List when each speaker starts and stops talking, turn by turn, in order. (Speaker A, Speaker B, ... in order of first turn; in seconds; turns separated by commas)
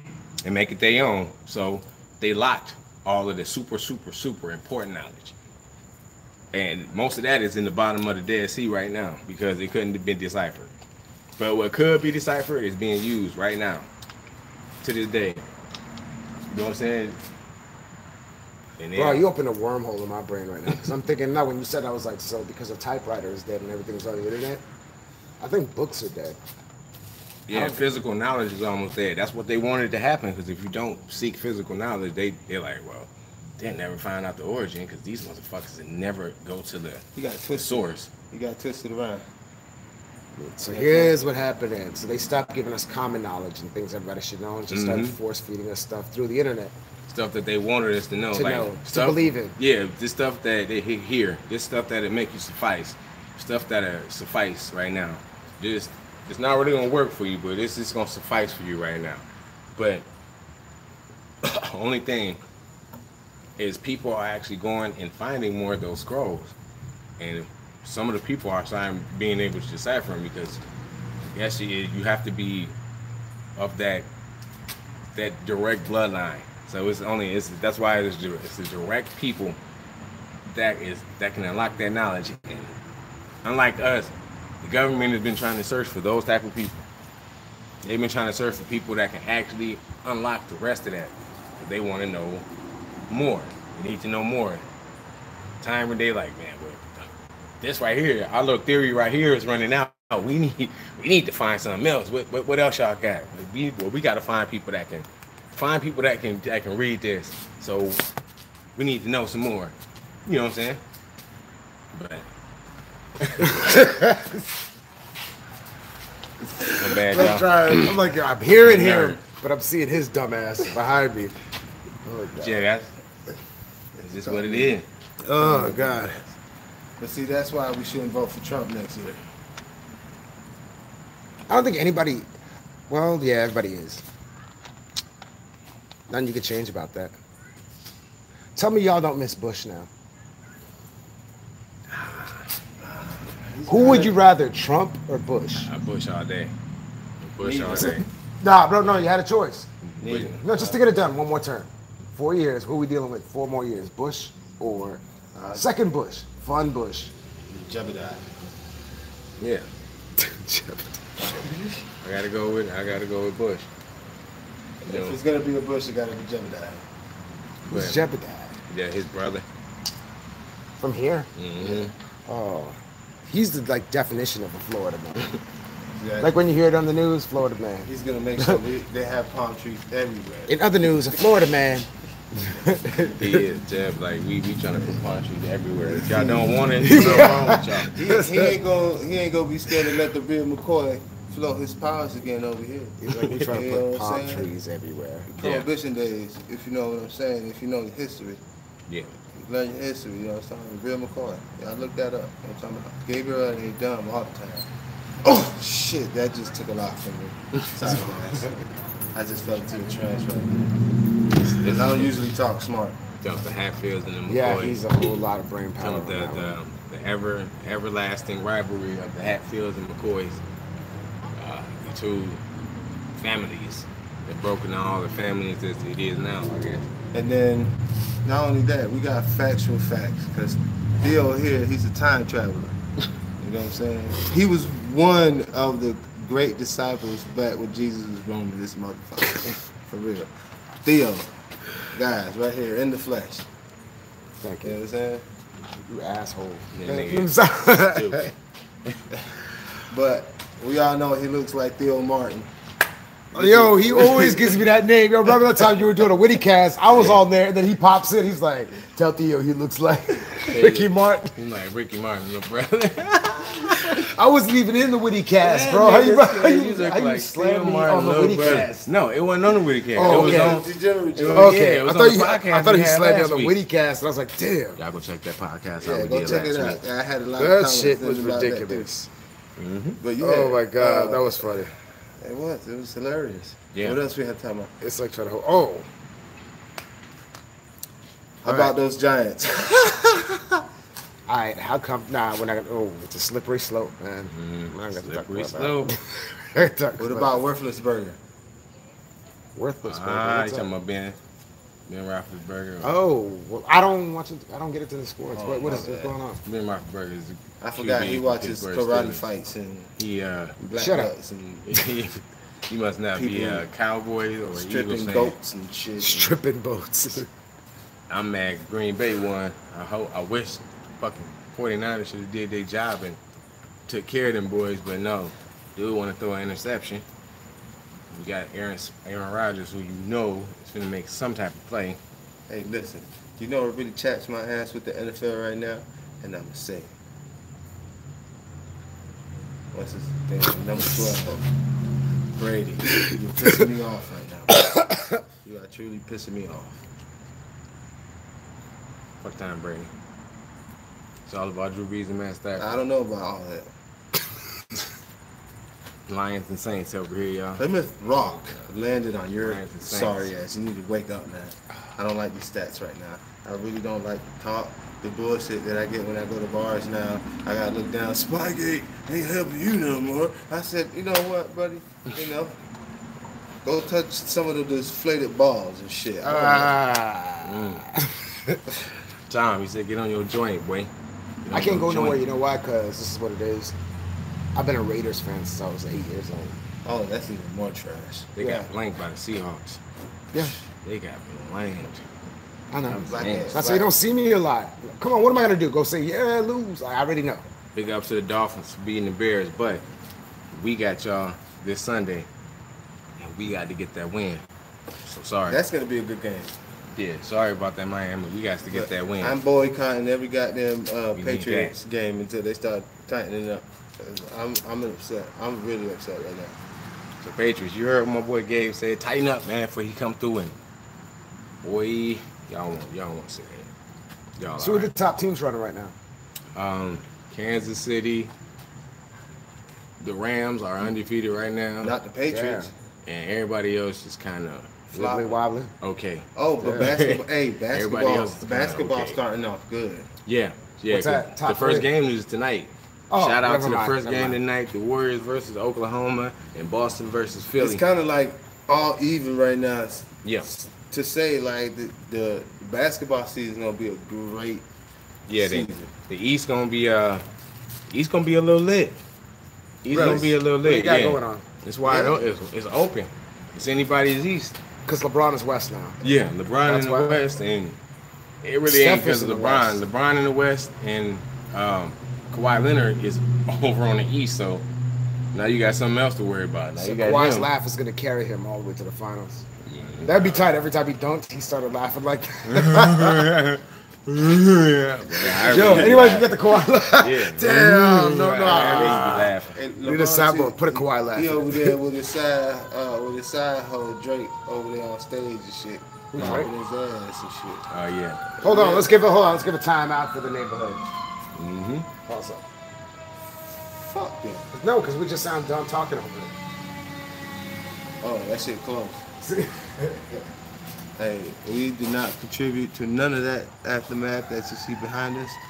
Speaker A: 0.4-5.3, Speaker A: 6.5-10.7, Speaker A: 11.4-13.9, Speaker A: 14.8-15.4, Speaker A: 16.5-17.2, Speaker A: 18.8-19.2, Speaker B: 18.9-24.6, Speaker B: 25.4-26.4, Speaker A: 27.5-38.1, Speaker B: 27.5-27.8, Speaker C: 37.1-39.2, Speaker B: 40.4-46.7, Speaker C: 40.7-41.2, Speaker A: 44.7-45.2, Speaker A: 47.1-59.2, Speaker B: 48.3-49.5, Speaker A: 59.8-60.0, Speaker A: 61.4-62.4, Speaker A: 63.6-66.5, Speaker A: 67.2-70.6, Speaker A: 71.3-72.7, Speaker A: 73.6-74.1, Speaker A: 75.1-79.6, Speaker A: 80.5-82.7, Speaker A: 83.4-86.8, Speaker A: 87.8-92.4, Speaker A: 93.1-94.6, Speaker A: 95.6-97.0, Speaker A: 97.6-108.0, Speaker A: 108.8-109.7, Speaker A: 110.2-110.8, Speaker A: 111.9-112.2, Speaker A: 113.2-113.7, Speaker B: 113.4-114.4, Speaker B: 116.6-121.3, Speaker A: 116.7-118.0, Speaker A: 118.6-119.2, Speaker B: 122.0-122.6, Speaker A: 122.4-122.9, Speaker C: 124.0-124.7, Speaker A: 124.0-124.8, Speaker B: 125.3-126.2, Speaker C: 125.3-126.2, Speaker C: 127.0-129.2, Speaker B: 131.5-132.3, Speaker B: 132.9-134.0, Speaker B: 136.1-137.1, Speaker B: 138.6-139.9, Speaker A: 141.9-142.5, Speaker C: 142.8-144.2, Speaker B: 143.7-145.7, Speaker A: 145.6-146.5, Speaker A: 147.2-148.1, Speaker C: 147.4-148.0, Speaker B: 147.7-149.7, Speaker A: 149.8-150.4, Speaker C: 150.0-150.8, Speaker B: 150.4-157.1, Speaker C: 155.3-155.6, Speaker C: 157.5-158.3, Speaker A: 159.4-159.7, Speaker B: 160.2-161.5, Speaker A: 162.0-163.7, Speaker C: 164.8-166.8, Speaker A: 164.8-165.2, Speaker B: 167.7-168.6, Speaker A: 167.7-168.0, Speaker A: 168.7-169.4, Speaker B: 170.8-171.3, Speaker A: 171.3-171.9, Speaker C: 171.6-171.9, Speaker B: 172.3-175.4, Speaker C: 175.9-176.3, Speaker B: 176.2-178.6, Speaker C: 177.8-180.6, Speaker B: 180.5-183.4, Speaker A: 183.2-188.0, Speaker C: 186.0-186.4, Speaker B: 186.8-188.6, Speaker C: 187.9-194.5, Speaker B: 193.0-195.3, Speaker C: 195.3-198.4, Speaker A: 195.4-195.7, Speaker A: 198.9-199.1, Speaker C: 199.3-204.7, Speaker C: 205.2-208.6, Speaker C: 209.1-210.8, Speaker C: 211.5-213.0, Speaker A: 211.5-212.0, Speaker A: 213.2-214.8, Speaker B: 214.3-216.6, Speaker A: 215.8-220.4, Speaker A: 221.4-222.4, Speaker A: 223.2-226.9, Speaker C: 227.1-232.8, Speaker C: 233.4-240.3, Speaker C: 240.8-241.3, Speaker C: 241.8-243.5, Speaker B: 244.4-244.8, Speaker C: 244.6-245.2, Speaker B: 245.8-248.3, Speaker A: 246.7-248.3, Speaker C: 249.9-252.5, Speaker B: 253.3-261.3, Speaker C: 253.3-254.6, Speaker A: 256.9-257.2, Speaker A: 260.5-264.0, Speaker B: 263.9-268.9, Speaker A: 265.4-273.6, Speaker C: 268.4-268.7, Speaker B: 269.9-270.6, Speaker C: 270.0-271.6, Speaker B: 271.3-274.8, Speaker A: 274.8-276.8, Speaker C: 275.8-278.9, Speaker B: 277.4-279.1, Speaker A: 279.6-280.0, Speaker C: 280.0-284.7, Speaker B: 280.2-281.7, Speaker A: 283.7-284.0, Speaker B: 284.8-285.9, Speaker C: 288.4-290.6, Speaker B: 288.4-288.7, Speaker B: 291.3-297.4, Speaker A: 294.3-295.9, Speaker C: 297.0-298.2, Speaker B: 299.6-300.7, Speaker A: 299.8-301.2, Speaker A: 301.9-302.9, Speaker B: 302.8-306.4, Speaker C: 305.3-306.1, Speaker A: 306.4-309.2, Speaker C: 307.6-309.9, Speaker A: 310.0-310.6, Speaker C: 310.6-311.8, Speaker B: 310.6-311.1, Speaker A: 311.7-315.4, Speaker C: 313.1-313.7, Speaker C: 314.5-316.4, Speaker B: 316.0-317.3, Speaker A: 318.1-323.2, Speaker A: 323.9-327.0, Speaker A: 328.1-332.0, Speaker C: 332.5-336.9, Speaker C: 339.7-341.4, Speaker C: 342.4-344.6, Speaker B: 344.7-345.2, Speaker C: 345.4-346.8, Speaker A: 349.2-349.9, Speaker A: 351.3-352.7, Speaker C: 352.6-353.7, Speaker A: 356.1-357.6, Speaker C: 357.6-372.6, Speaker A: 359.4-360.3, Speaker C: 373.6-376.8, Speaker B: 376.2-378.6, Speaker A: 377.4-377.8, Speaker A: 379.3-380.9, Speaker A: 381.4-382.2, Speaker B: 381.5-383.7, Speaker B: 384.5-386.6, Speaker C: 386.8-388.4, Speaker A: 388.4-389.8, Speaker B: 388.4-388.6, Speaker A: 390.8-392.0, Speaker B: 392.7-397.4, Speaker A: 392.9-393.5, Speaker C: 393.0-393.9, Speaker A: 397.7-399.8, Speaker A: 400.5-402.3, Speaker A: 403.2-404.4, Speaker A: 405.1-405.6, Speaker C: 405.5-406.5, Speaker A: 406.9-409.4, Speaker C: 408.7-416.6, Speaker A: 411.1-411.7, Speaker A: 417.2-420.5, Speaker A: 421.6-423.7, Speaker A: 424.4-424.9, Speaker B: 424.6-425.9, Speaker A: 426.5-428.3, Speaker A: 430.0-432.0, Speaker C: 431.8-432.7, Speaker B: 432.3-432.7, Speaker A: 433.1-434.9, Speaker C: 434.9-435.4, Speaker B: 434.9-435.7, Speaker A: 435.8-439.2, Speaker C: 436.3-440.1, Speaker B: 436.6-436.9, Speaker A: 440.2-447.8, Speaker B: 440.9-441.9, Speaker B: 443.1-444.4, Speaker C: 447.6-454.6, Speaker A: 455.3-457.2, Speaker C: 455.3-455.9, Speaker A: 457.9-459.0, Speaker A: 459.8-464.6, Speaker B: 459.9-462.0, Speaker C: 459.9-460.3, Speaker B: 464.9-466.0, Speaker A: 466.0-467.8, Speaker B: 466.6-467.2, Speaker A: 468.4-474.6, Speaker B: 468.6-469.8, Speaker A: 475.3-477.5, Speaker B: 476.8-479.4, Speaker A: 479.6-480.4, Speaker B: 480.0-483.3, Speaker A: 482.5-489.6, Speaker B: 485.2-489.3, Speaker C: 488.4-497.7, Speaker B: 489.8-491.7, Speaker B: 496.1-496.5, Speaker A: 496.2-496.5, Speaker A: 497.7-498.3, Speaker C: 498.4-498.9, Speaker B: 498.4-500.8, Speaker A: 501.4-501.9, Speaker B: 502.1-502.4, Speaker C: 503.7-504.5, Speaker B: 504.5-506.3, Speaker C: 508.0-509.0, Speaker B: 509.2-510.2, Speaker C: 511.0-515.4